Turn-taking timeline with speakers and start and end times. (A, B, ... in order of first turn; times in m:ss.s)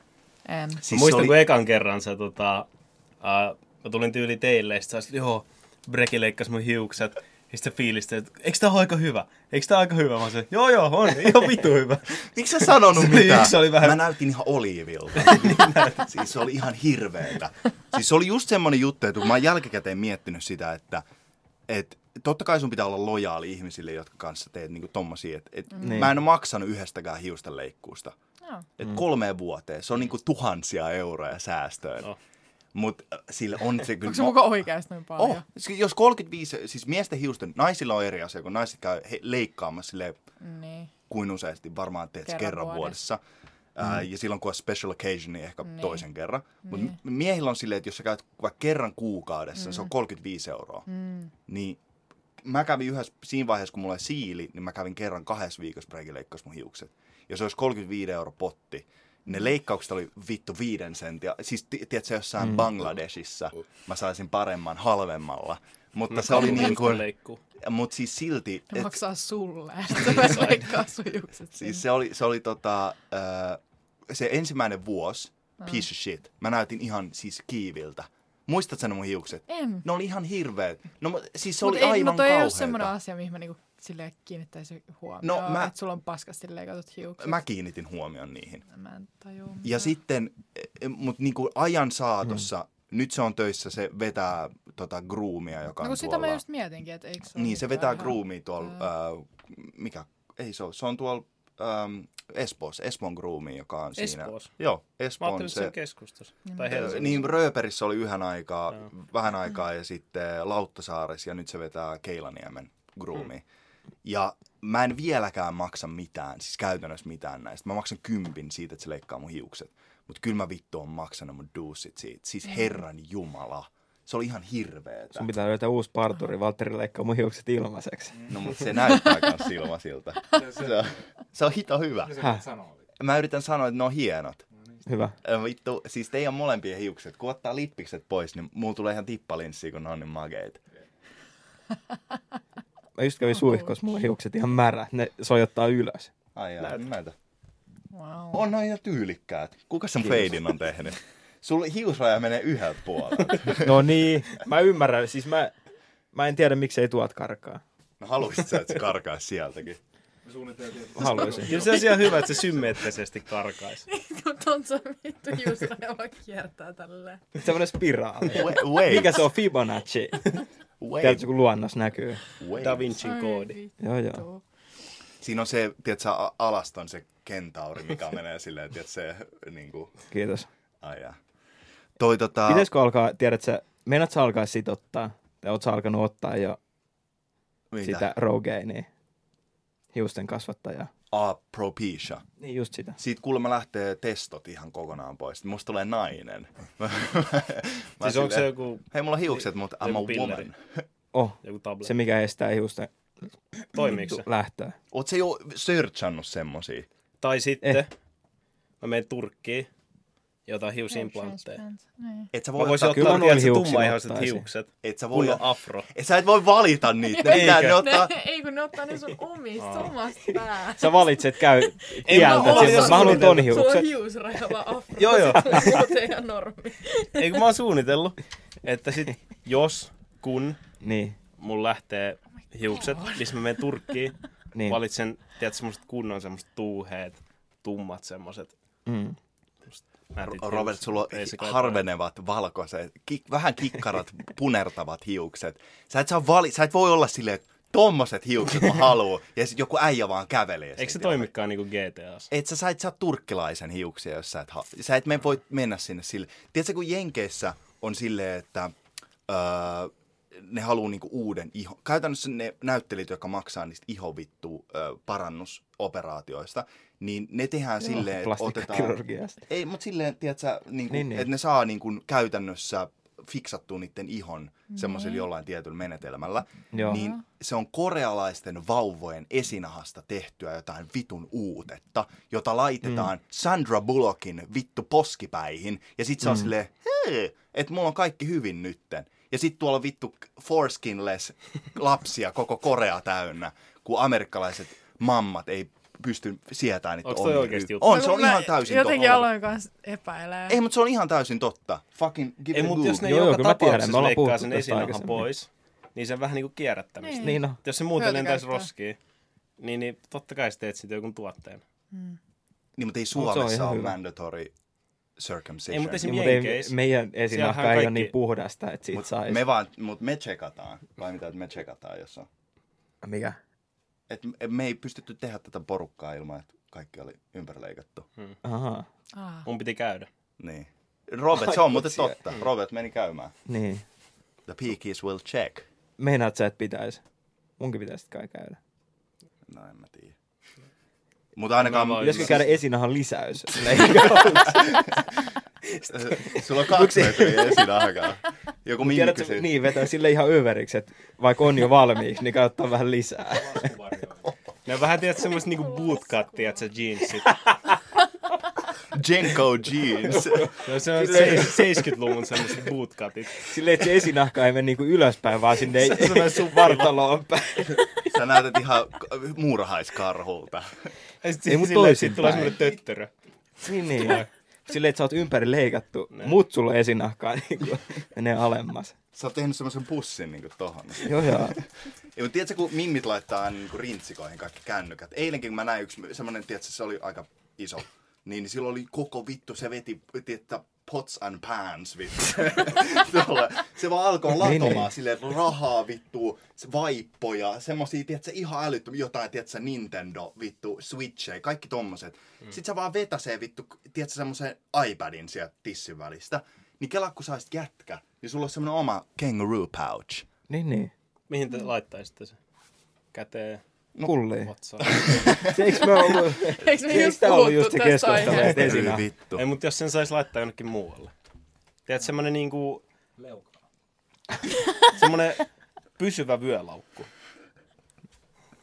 0:00.4-0:00.8 A
0:00.8-0:01.4 B
0:00.9-0:02.7 C
0:03.2-0:12.1 C
0:11.2-0:11.5 D
0:12.2-0:21.0 B
0:13.0-0:13.9 C
0:15.2-0:15.8 C
0:21.7-0:28.1 B
0:25.8-0:26.1 D
0:28.8-0:32.1 B
0:32.7-0:34.6 B
0:34.0-0:35.4 A
0:35.2-0:40.2 B
0:40.4-0:40.9 A
0:41.1-0:43.2 B
0:42.2-0:43.0 A
0:43.8-0:50.9 B
0:45.7-0:46.0 A
0:46.6-0:46.9 A
0:50.9-0:51.3 A
0:51.4-0:51.8 B
0:52.4-1:09.0 B
1:02.4-1:02.7 D
1:06.1-1:07.4 C
1:08.7-1:11.8 A
1:09.9-1:10.6 C
1:11.6-1:22.9 B
1:19.5-1:19.8 A
1:21.6-1:27.4 A
1:25.2-1:25.7 B
1:27.2-1:28.6 B
1:28.7-1:29.9 A
1:29.6-1:36.4 B
1:35.8-1:38.2 A
1:37.3-1:45.7 B
1:44.0-1:44.5 C
1:45.2-1:47.2 C
1:46.5-1:47.3 A
1:46.7-1:53.4 B
1:54.0-2:05.3 B
2:05.1-2:08.2 D
2:08.1-2:08.5 E
2:08.3-2:12.2 B
2:10.3-2:11.0 E
2:12.0-2:12.9 E
2:12.2-2:12.4 D
2:13.0-2:14.4 B
2:14.8-2:15.1 D
2:15.2-2:20.6 B
2:23.0-2:26.1 D
2:26.3-2:27.1 B
2:27.9-2:28.4 A
2:28.3-2:33.9 B
2:30.0-2:30.3 D
2:33.6-2:35.5 D
2:36.1-2:37.6 D
2:38.0-2:39.8 B
2:40.2-2:42.8 E
2:40.9-2:41.5 D
2:41.4-2:43.9 C
2:43.9-2:47.2 A
2:47.4-2:50.4 D
2:48.3-2:49.3 B
2:50.8-2:51.3 B
2:51.0-2:52.2 D
2:52.4-2:53.0 B
2:52.6-2:53.6 C
2:53.0-2:54.4 A
2:53.8-2:54.2 D
2:55.2-2:59.9 B
3:00.1-3:00.5 D
3:00.8-3:01.2 B
3:02.0-3:02.7 B
3:02.5-3:06.6 D
3:07.7-3:08.1 B
3:07.8-3:08.9 D
3:09.9-3:10.9 D
3:11.1-3:12.2 B
3:12.4-3:13.0 D
3:13.0-3:20.8 B
3:18.0-3:20.4 C
3:21.1-3:22.9 D
3:21.4-3:21.9 C
3:23.5-3:24.8 D
3:23.8-3:24.2 C
3:24.9-3:26.9 B
3:27.2-3:27.9 C
3:28.8-3:29.7 C
3:30.4-3:31.6 C
3:30.9-3:32.3 A
3:32.3-3:33.3 B
3:32.6-3:35.9 C
3:32.8-3:34.4 D
3:34.8-3:38.1 B
3:37.1-3:41.4 A
3:37.2-3:37.8 C
3:39.6-3:39.9 C
3:40.8-3:43.7 C
3:41.3-3:43.9 D
3:42.0-3:47.4 A
3:45.0-3:45.9 C
3:47.1-3:50.6 C
3:50.8-3:51.2 D
3:51.4-3:58.5 C
3:52.9-3:53.2 A
3:54.5-3:54.8 D
3:58.9-3:59.2 D
3:59.7-4:01.8 C
4:00.2-4:11.3 B
4:10.8-4:12.3 C
4:12.3-4:18.7 B
4:19.3-4:59.3 B
4:27.8-4:29.4 D
4:30.9-4:31.3 D
4:34.7-4:35.2 A
4:36.7-4:37.1 D
4:36.9-4:37.1 A
4:57.0-4:57.9 C
4:57.8-5:00.6 A
5:00.5-5:03.1 B
5:02.5-5:09.0 C
5:03.0-5:05.3 D
5:07.0-5:07.4 A
5:07.2-5:07.6 D
5:07.9-5:08.7 A
5:09.6-5:11.6 C
5:11.9-5:12.2 A
5:12.8-5:14.5 B
5:13.2-5:14.0 D
5:15.2-5:16.1 B
5:15.7-5:16.7 C
5:16.0-5:19.4 D
5:17.3-5:18.1 C
5:18.9-5:22.3 B
5:23.0-5:23.4 D
5:24.1-5:28.1 B
5:28.4-5:28.9 D
5:29.2-5:29.5 A
5:29.4-5:30.1 C
5:30.4-5:33.3 B
5:31.4-5:32.2 D
5:33.4-5:33.8 D
5:34.4-5:35.7 B
5:36.0-5:37.0 D
5:37.6-5:38.6 D
5:39.4-5:40.2 B
5:41.4-5:42.4 B
5:41.6-5:42.5 C
5:42.0-5:45.0 D
5:45.8-5:47.7 D
5:45.9-5:49.5 B
5:48.8-5:53.7 D
5:53.3-5:54.3 E
5:54.7-5:57.5 C
5:55.7-5:56.6 A
5:58.9-6:00.5 B
6:00.1-6:01.9 D
6:00.6-6:03.5 C
6:03.4-6:08.1 D
6:05.6-6:07.0 C
6:08.0-6:10.8 B
6:11.2-6:13.1 C
6:11.4-6:12.6 D
6:13.6-6:18.9 D
6:13.9-6:14.2 C
6:19.1-6:50.2 B
6:21.0-6:21.6 D
6:34.4-6:34.9 D
6:50.5-6:50.9 D
6:51.3-6:52.4 C
6:53.1-6:53.6 C
6:54.0-6:54.5 D
6:54.4-6:55.5 C
6:54.8-6:55.6 B
6:55.3-6:59.1 D
6:56.0-6:58.7 A
6:58.3-6:59.4 B
6:59.3-7:01.1 C
7:01.8-7:02.8 C
7:03.2-7:03.6 E
7:04.9-7:05.4 C
7:06.0-7:07.1 C